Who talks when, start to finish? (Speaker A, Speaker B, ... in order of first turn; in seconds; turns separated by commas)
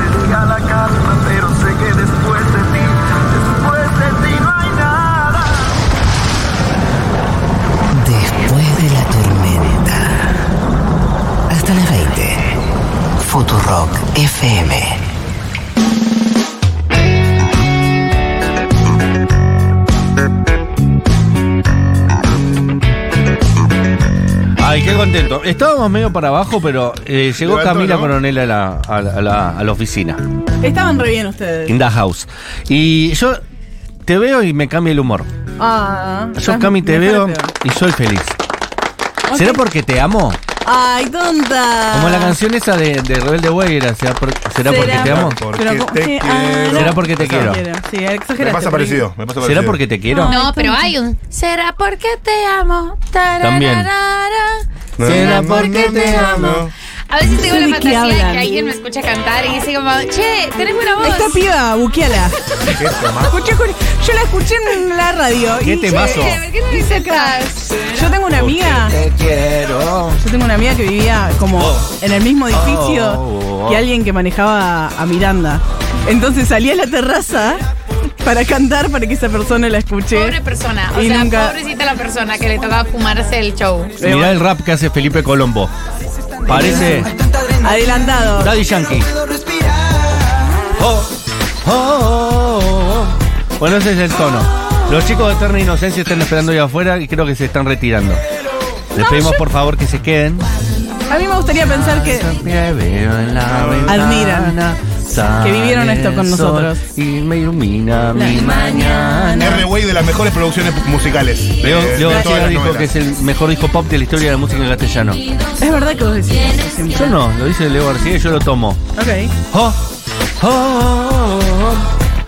Speaker A: 0.5-2.6, Speaker A: 7.9-10.1, Speaker A: 11.5-12.4, Speaker A: 13.2-15.0, Speaker B: 24.6-30.2, Speaker C: 27.3-28.2, Speaker D: 30.6-31.8, Speaker B: 31.7-33.4, Speaker B: 34.1-35.3, Speaker D: 35.6-37.5, Speaker B: 36.4-38.4, Speaker D: 39.3-39.6, Speaker B: 39.3-40.4, Speaker D: 40.6-42.4, Speaker B: 41.9-45.4, Speaker D: 44.6-49.0, Speaker C: 44.7-47.5, Speaker B: 46.7-47.6, Speaker C: 48.4-49.8, Speaker B: 49.4-50.4, Speaker D: 50.1-50.9, Speaker E: 50.3-54.6, Speaker B: 53.4-53.9, Speaker C: 55.0-56.7, Speaker B: 55.0-56.4, Speaker E: 56.0-61.4, Speaker D: 57.4-58.6, Speaker D: 61.0-62.4, Speaker C: 62.6-63.4, Speaker D: 63.2-69.0, Speaker B: 65.6-66.4, Speaker E: 65.9-67.9, Speaker B: 68.3-70.2, Speaker D: 70.2-77.6, Speaker B: 71.6-71.8, Speaker B: 72.5-73.8, Speaker D: 78.2-80.4, Speaker E: 80.1-84.0, Speaker D: 80.9-81.6, Speaker D: 84.0-84.4, Speaker B: 84.0-85.7, Speaker B: 86.5-87.1, Speaker D: 87.6-88.5, Speaker B: 88.4-89.1, Speaker B: 90.8-91.1, Speaker B: 91.6-98.2, Speaker B: 98.9-100.5, Speaker D: 99.0-99.4, Speaker D: 101.1-102.3, Speaker B: 101.7-109.5, Speaker C: 103.5-103.9, Speaker D: 103.9-104.6, Speaker D: 105.4-106.8, Speaker D: 108.1-109.7, Speaker C: 109.4-112.9, Speaker B: 111.6-115.2, Speaker D: 112.0-112.3, Speaker D: 115.6-117.2, Speaker B: 116.9-118.8, Speaker D: 119.0-119.3, Speaker B: 119.5-119.8, Speaker B: 120.4-121.9